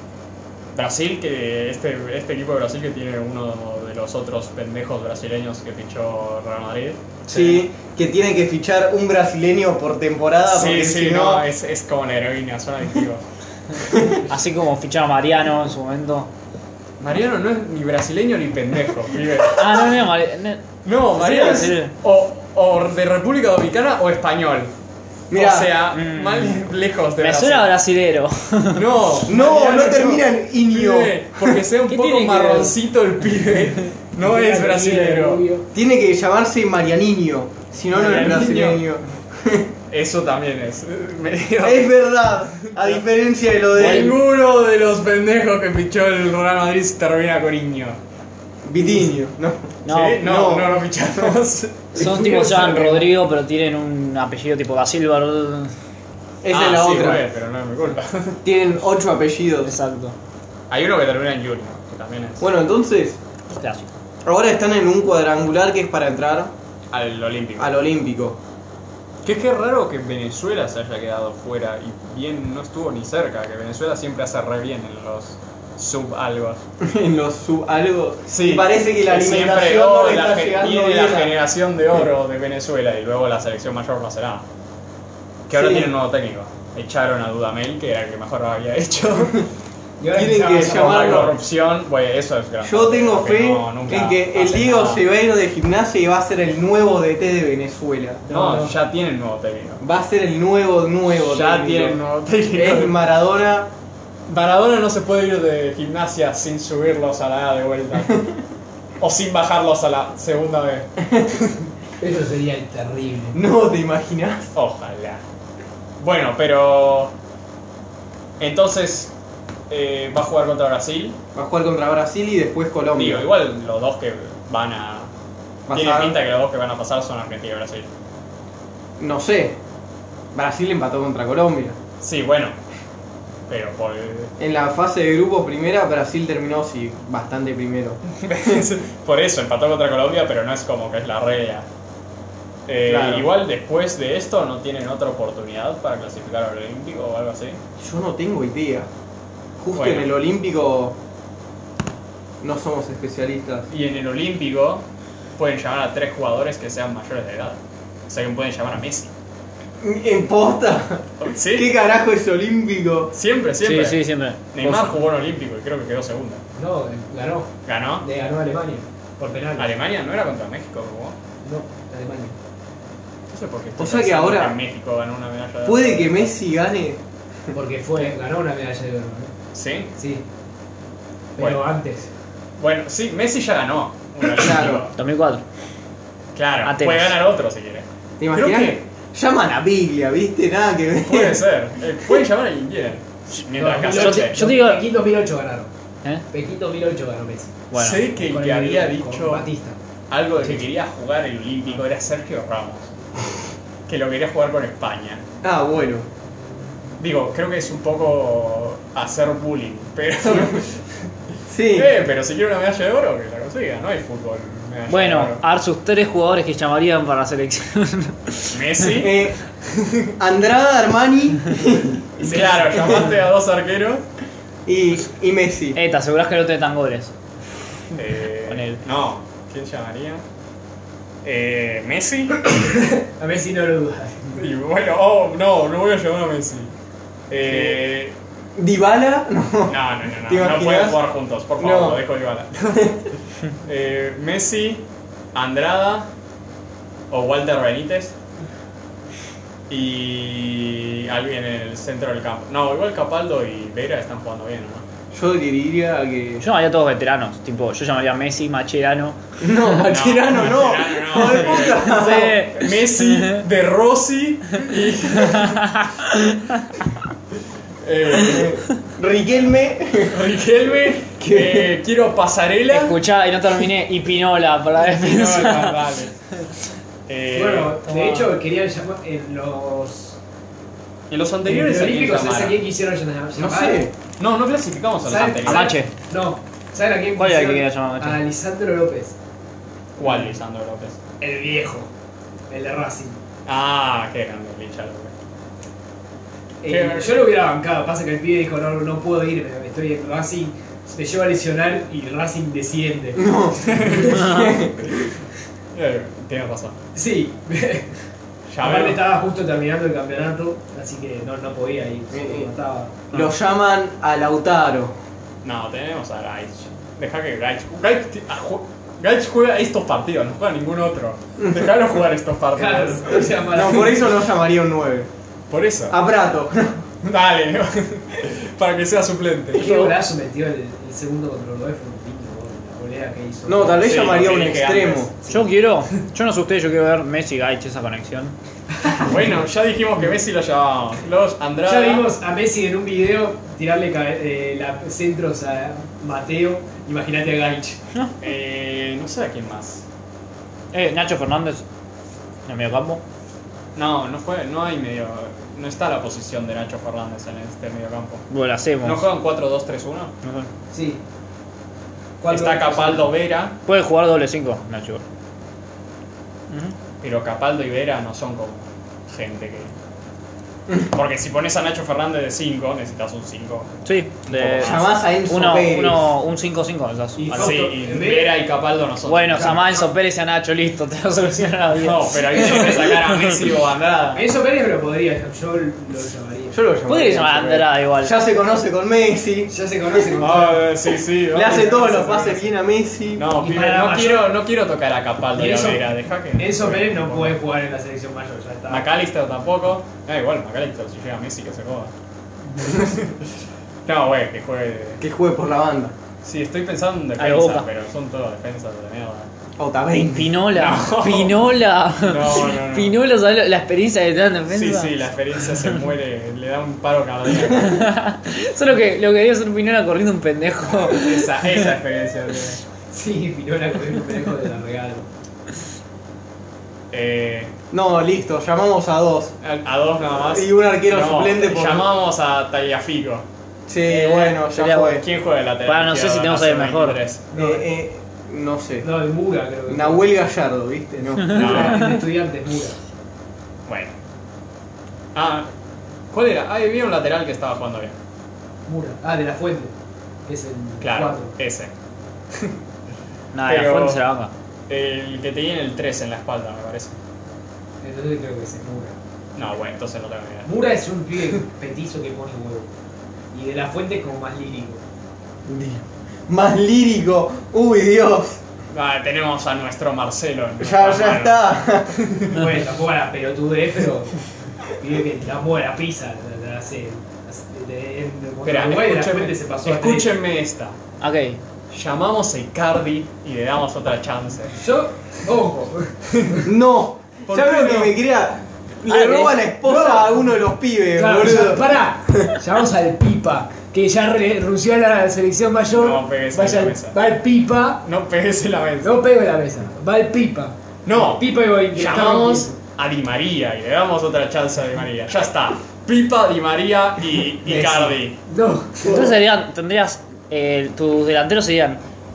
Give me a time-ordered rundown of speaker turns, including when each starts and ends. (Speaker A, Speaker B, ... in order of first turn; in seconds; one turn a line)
Speaker A: 0.7-7.6
Speaker B: 7.3-11.4
Speaker A: 10.5-13.2
Speaker C: 14.3-16.3
Speaker A: 17.0-19.9
Speaker C: 19.4-21.9
Speaker A: 20.8-24.7
Speaker B: 25.3-25.7
Speaker A: 25.3-27.7
Speaker C: 25.9-26.7
Speaker C: 27.2-28.9
Speaker A: 28.7-35.4
Speaker B: 29.2-31.6
Speaker C: 31.9-32.7
Speaker D: 34.2-35.6
Speaker B: 35.7-39.7
Speaker A: 37.9-38.8
Speaker A: 39.9-42.0
Speaker B: 41.6-44.2
Speaker A: 42.5-43.0
Speaker A: 43.7-48.0
Speaker C: 43.8-44.1
Speaker B: 48.6-51.3
Speaker C: 49.8-50.2
Speaker A: 49.9-53.0
Speaker C: 51.9-55.7
Speaker B: 52.0-52.7
Speaker B: 56.4-57.2
Speaker A: 56.5-58.4
Speaker B: 58.4-59.7
Speaker C: 59.6-60.1
Speaker A: 60.7-62.5
Speaker B: 62.4-63.2
Speaker C: 63.5-63.9
Speaker B: 64.2-66.5
Speaker A: 66.9-67.8
Speaker B: 67.6-68.4
Speaker A: 69.2-76.6
Speaker B: 76.8-81.4
Speaker A: 78.3-84.4
Speaker A: 85.5-89.5
Speaker B: 85.5-85.9
Speaker D: 90.0-91.3
Speaker B: 90.1-91.4
Speaker A: 90.5-95.0
Speaker B: 92.6-98.2
Speaker D: 98.2-98.7
Speaker A: 98.3-99.8
Speaker B: 99.8-102.0
Speaker A: 101.2-102.9
Speaker B: 102.5-103.7
Speaker A: 104.3-108.2
Speaker A: 109.0-110.9
Speaker B: 111.1-111.5
Speaker D: 112.0-113.4
Speaker B: 113.3-114.5
Speaker A: 114.5-115.2
Speaker A: 116.0-117.1
Speaker A: 118.4-119.1
Speaker A: 119.7-121.2
Speaker B: 121.3-123.3
Speaker A: 122.9-125.1
Speaker B: 125.7-126.2
Speaker A: 125.7-127.9
Speaker B: 129.0-129.6
Speaker B: 130.3-131.8
Speaker A: 132.0-132.5
Speaker A: 133.5-134.3
Speaker B: 134.4-138.0
Speaker A: 138.1-141.7
Speaker A: 142.7-147.6
Speaker B: 142.9-143.3
Speaker B: 147.8-148.9
Speaker B: 149.6-151.0
Speaker A: 149.7-150.1
Speaker B: 152.4-153.7
Speaker A: 153.7-154.8
Speaker A: 155.4-159.1
Speaker B: 159.8-163.1
Speaker A: 161.2-161.7
Speaker A: 163.1-166.4
Speaker C: 163.6-164.9
Speaker D: 166.6-169.7
Speaker A: 167.7-168.1
Speaker A: 169.6-171.1
Speaker D: 171.4-172.3
Speaker A: 173.3-176.3
Speaker B: 173.8-174.6
Speaker B: 175.6-177.0
Speaker D: 177.5-179.3
Speaker A: 179.5-179.9
Speaker D: 180.0-180.2
Speaker D: 181.4-182.1
Speaker A: 182.6-184.9
Speaker B: 184.2-184.9
Speaker C: 184.9-185.4
Speaker A: 186.3-188.8
Speaker C: 186.6-187.2
Speaker B: 188.2-191.4
Speaker A: 191.0-194.4
Speaker D: 193.6-195.7
Speaker C: 193.8-194.8
Speaker D: 196.3-197.6
Speaker C: 197.7-198.1
Speaker A: 197.7-199.5
Speaker D: 198.1-199.8
Speaker A: 200.1-202.9
Speaker D: 200.4-200.7
Speaker A: 203.9-205.2
Speaker B: 205.4-206.1
Speaker A: 207.0-210.9
Speaker B: 211.5-212.0
Speaker A: 211.7-215.4
Speaker C: 214.9-218.9
Speaker A: 218.5-219.2
Speaker B: 218.9-222.0
Speaker A: 222.2-224.0
Speaker D: 222.2-223.1
Speaker B: 224.7-225.8
Speaker C: 225.7-227.1
Speaker A: 227.9-230.2
Speaker C: 228.5-228.8
Speaker A: 231.2-232.5
Speaker D: 232.5-234.5
Speaker A: 234.3-236.7
Speaker A: 237.3-238.1
Speaker B: 237.5-237.8
Speaker B: 238.6-241.0
Speaker A: 239.7-246.1
Speaker B: 241.6-242.0
Speaker A: 247.1-248.1
Speaker A: 249.7-254.8
Speaker B: 255.1-256.4
Speaker C: 256.4-259.2
Speaker B: 259.4-262.5
Speaker A: 259.8-265.7
Speaker C: 261.6-263.4
Speaker C: 265.1-265.9
Speaker A: 267.8-268.6
Speaker B: 268.1-270.3
Speaker A: 270.0-273.0
Speaker B: 271.2-271.7
Speaker C: 272.7-275.8
Speaker A: 274.8-276.1
Speaker A: 277.1-278.1
Speaker D: 277.3-280.2
Speaker C: 277.9-278.3
Speaker A: 281.1-282.6
Speaker D: 281.4-283.9
Speaker B: 283.4-283.9
Speaker A: 284.2-285.7
Speaker D: 285.0-289.1
Speaker C: 285.4-285.9
Speaker C: 287.2-288.2
Speaker A: 289.9-291.0
Speaker D: 290.0-290.3
Speaker D: 291.2-291.9
Speaker D: 292.5-293.2
Speaker A: 293.4-295.1
Speaker D: 296.6-304.3
Speaker A: 296.6-297.3
Speaker B: 303.1-305.1
Speaker A: 303.7-304.6
Speaker A: 305.7-306.7
Speaker D: 306.9-307.9
Speaker A: 308.5-309.0
Speaker D: 308.6-313.0
Speaker B: 312.1-312.5
Speaker B: 313.1-314.9
Speaker A: 315.4-323.3
Speaker D: 322.5-324.1
Speaker B: 323.5-325.1
Speaker A: 325.5-325.9
Speaker B: 325.9-326.8
Speaker A: 327.0-329.9
Speaker D: 329.5-334.1
Speaker B: 333.4-335.1
Speaker A: 333.8-335.1
Speaker C: 335.3-338.3
Speaker A: 338.9-342.1
Speaker D: 341.6-347.8
Speaker A: 348.2-349.8
Speaker C: 350.7-351.6
Speaker C: 352.4-353.0
Speaker A: 353.7-358.2
Speaker C: 358.3-359.0
Speaker A: 358.8-360.1
Speaker C: 360.2-360.5
Speaker D: 360.7-361.0
Speaker D: 362.2-363.1
Speaker A: 362.3-363.6
Speaker C: 363.6-365.0
Speaker C: 366.5-366.7
Speaker A: 367.0-369.7
Speaker A: 370.8-373.8
Speaker C: 373.8-377.6
Speaker A: 374.3-374.9
Speaker B: 374.6-376.1
Speaker D: 377.2-378.4
Speaker A: 377.3-379.6
Speaker C: 379.1-383.4
Speaker A: 381.7-384.3
Speaker D: 384.1-386.6
Speaker B: 386.5-389.5
Speaker C: 386.9-388.1
Speaker D: 389.5-390.7
Speaker A: 390.2-392.5
Speaker B: 391.3-393.3
Speaker A: 393.1-397.4
Speaker D: 393.3-394.3
Speaker D: 395.4-398.9
Speaker A: 398.7-401.9
Speaker A: 402.6-403.1
Speaker A: 403.8-405.0
Speaker B: 405.0-405.9
Speaker A: 406.2-409.3
Speaker C: 407.2-407.7
Speaker B: 409.6-410.4
Speaker C: 410.1-415.0
Speaker A: 410.5-411.5
Speaker A: 412.0-413.0
Speaker A: 414.5-417.9
Speaker C: 417.4-421.5
Speaker A: 420.8-422.6
Speaker D: 422.9-425.1
Speaker A: 426.9-427.5
Speaker B: 427.7-429.3
Speaker A: 429.4-433.2
Speaker B: 430.1-431.9
Speaker B: 433.7-435.0
Speaker C: 433.9-435.0
Speaker A: 434.8-437.3
Speaker C: 435.6-437.0
Speaker D: 437.3-437.7
Speaker B: 437.3-438.9
Speaker D: 438.8-440.1
Speaker B: 439.7-441.7
Speaker D: 441.3-442.8
Speaker A: 441.3-442.0
Speaker A: 443.7-443.9
Speaker A: 445.1-445.5
Speaker A: 446.1-447.9
Speaker D: 448.6-449.7
Speaker D: 450.2-451.3
Speaker A: 450.8-451.7
Speaker C: 453.3-454.3
Speaker A: 453.4-454.0
Speaker A: 454.7-457.0
Speaker D: 457.8-458.9
Speaker A: 459.3-460.5
Speaker D: 460.4-462.7
Speaker D: 463.3-464.8
Speaker B: 465.5-468.4
Speaker A: 468.7-472.3
Speaker B: 470.6-472.2
Speaker D: 472.3-480.2
Speaker A: 478.4-480.8
Speaker C: 481.0-481.4
Speaker A: 481.7-484.6
Speaker D: 484.6-486.5
Speaker B: 486.4-492.3
Speaker A: 487.2-487.9
Speaker C: 488.9-489.4
Speaker D: 489.6-490.1
Speaker D: 490.9-497.8
Speaker A: 495.7-497.0
Speaker A: 497.8-499.0
Speaker D: 498.8-502.5
Speaker A: 500.8-508.2
Speaker D: 507.4-509.1
Speaker C: 508.8-511.8